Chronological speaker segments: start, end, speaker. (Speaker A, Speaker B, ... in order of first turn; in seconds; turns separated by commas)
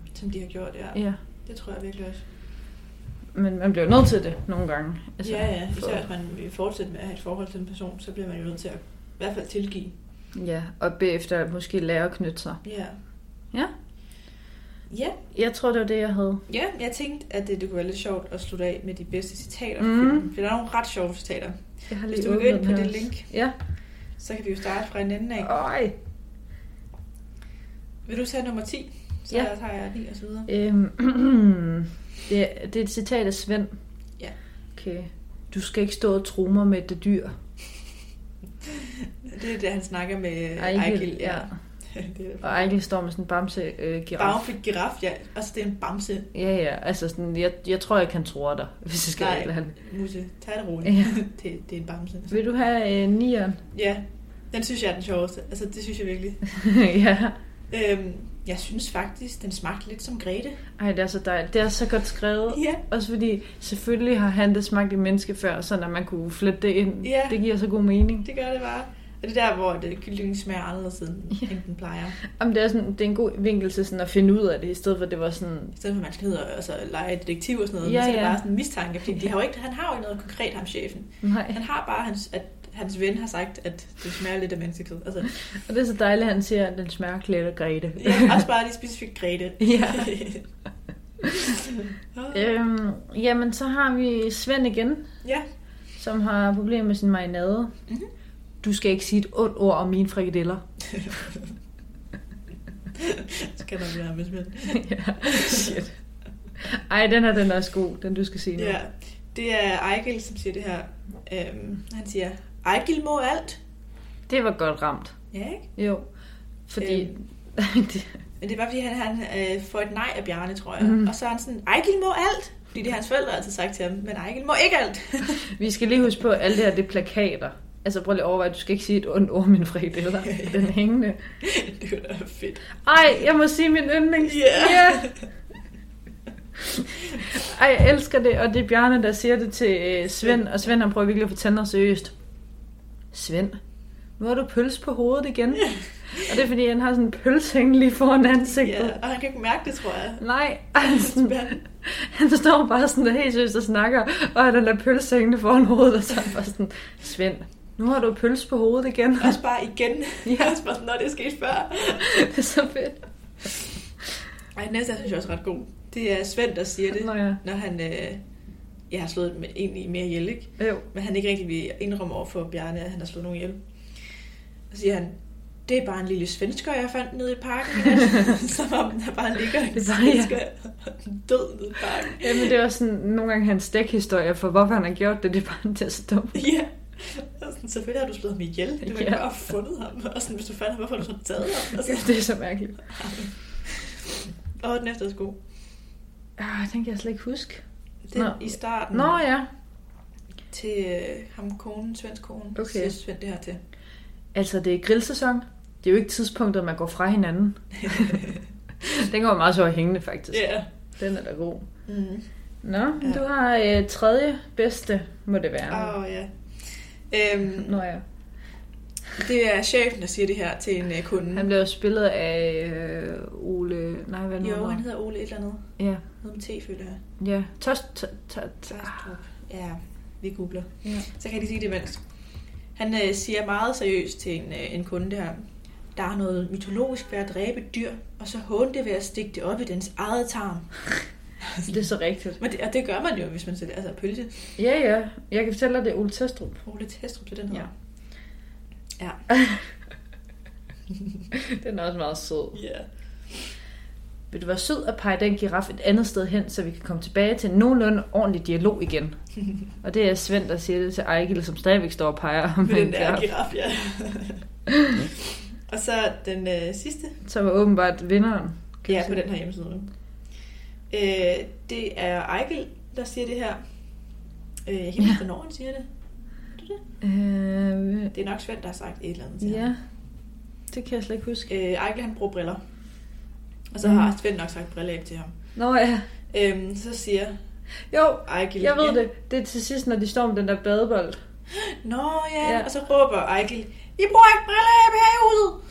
Speaker A: 0.1-2.3, Speaker B: 0.9-1.2, Speaker B: 3.4-6.1, Speaker A: 5.2-9.9, Speaker B: 10.3-12.6, Speaker A: 12.6-13.0, Speaker A: 14.9-15.2, Speaker B: 15.3-16.4, Speaker A: 16.5-23.3, Speaker B: 19.8-20.3, Speaker B: 21.9-23.6, Speaker A: 24.2-25.5, Speaker B: 25.4-25.9, Speaker A: 28.1-30.5, Speaker B: 30.5-33.8, Speaker B: 34.8-37.4, Speaker A: 38.6-42.7, Speaker B: 40.6-41.5, Speaker B: 42.4-44.5, Speaker A: 44.2-46.3, Speaker B: 46.3-49.8, Speaker A: 49.2-52.4, Speaker B: 50.9-51.1, Speaker B: 52.3-53.6, Speaker A: 53.7-56.4, Speaker B: 56.5-57.4, Speaker A: 57.7-60.6, Speaker B: 60.8-68.3, Speaker A: 62.5-62.8, Speaker A: 67.0-67.4, Speaker A: 68.2-72.2, Speaker B: 72.3-75.8, Speaker A: 75.8-85.3, Speaker B: 77.8-78.4, Speaker B: 81.2-81.6, Speaker B: 85.5-88.5, Speaker A: 88.0-90.5, Speaker B: 89.6-90.2, Speaker B: 91.2-91.5, Speaker A: 91.6-92.4, Speaker B: 92.3-95.1, Speaker B: 96.0-97.8, Speaker B: 98.6-101.2, Speaker A: 102.9-105.8, Speaker B: 104.7-106.0, Speaker B: 106.6-108.8, Speaker A: 108.6-113.6, Speaker B: 114.3-115.2, Speaker A: 115.3-115.7, Speaker B: 115.8-116.1, Speaker B: 116.7-118.2, Speaker A: 116.8-117.2, Speaker A: 118.4-125.5, Speaker B: 120.8-121.1, Speaker B: 125.4-131.3, Speaker A: 130.2-130.7, Speaker A: 131.4-132.8, Speaker B: 132.8-135.2, Speaker A: 134.2-135.3, Speaker B: 136.7-142.1, Speaker B: 143.1-143.6, Speaker B: 144.2-149.0, Speaker A: 148.5-151.6, Speaker B: 150.2-159.4, Speaker A: 159.2-162.3, Speaker B: 160.2-160.6, Speaker B: 162.0-163.1, Speaker A: 164.5-168.2, Speaker B: 166.9-167.4, Speaker A: 168.9-174.1, Speaker B: 170.6-170.9, Speaker A: 174.7-182.5, Speaker B: 179.7-180.3, Speaker B: 182.1-186.5, Speaker A: 186.3-192.2, Speaker B: 188.8-189.2, Speaker B: 191.7-193.1, Speaker A: 192.9-195.4, Speaker B: 196.4-199.5, Speaker A: 198.1-199.2, Speaker A: 200.5-203.6, Speaker B: 202.6-202.9, Speaker B: 204.3-211.7, Speaker A: 208.0-208.3, Speaker A: 210.3-210.7, Speaker A: 211.9-212.3, Speaker B: 212.6-215.9, Speaker A: 215.7-217.8, Speaker B: 217.6-218.0, Speaker A: 219.2-221.5, Speaker B: 221.3-224.8, Speaker A: 224.4-227.0, Speaker B: 225.8-226.0, Speaker B: 227.2-229.1, Speaker A: 228.7-240.7, Speaker A: 241.4-241.7, Speaker B: 241.6-242.4, Speaker A: 242.4-244.6, Speaker B: 244.6-246.6, Speaker A: 246.6-247.7, Speaker A: 249.0-249.2, Speaker B: 249.4-249.6, Speaker B: 251.3-252.6, Speaker A: 252.5-253.5, Speaker B: 254.3-259.2, Speaker B: 259.8-263.3, Speaker A: 262.6-264.5, Speaker A: 265.1-267.2, Speaker B: 267.2-269.2, Speaker A: 268.9-269.9, Speaker A: 270.9-273.6, Speaker A: 274.6-275.9, Speaker A: 276.6-276.8, Speaker B: 277.0-278.1, Speaker A: 278.1-279.7, Speaker B: 279.4-279.8, Speaker B: 280.7-281.5, Speaker A: 281.5-282.6, Speaker A: 283.7-285.4, Speaker B: 283.8-284.1, Speaker B: 285.6-286.1, Speaker A: 286.3-287.3, Speaker B: 287.9-291.2, Speaker A: 288.2-289.0, Speaker A: 291.5-295.6, Speaker B: 292.4-292.7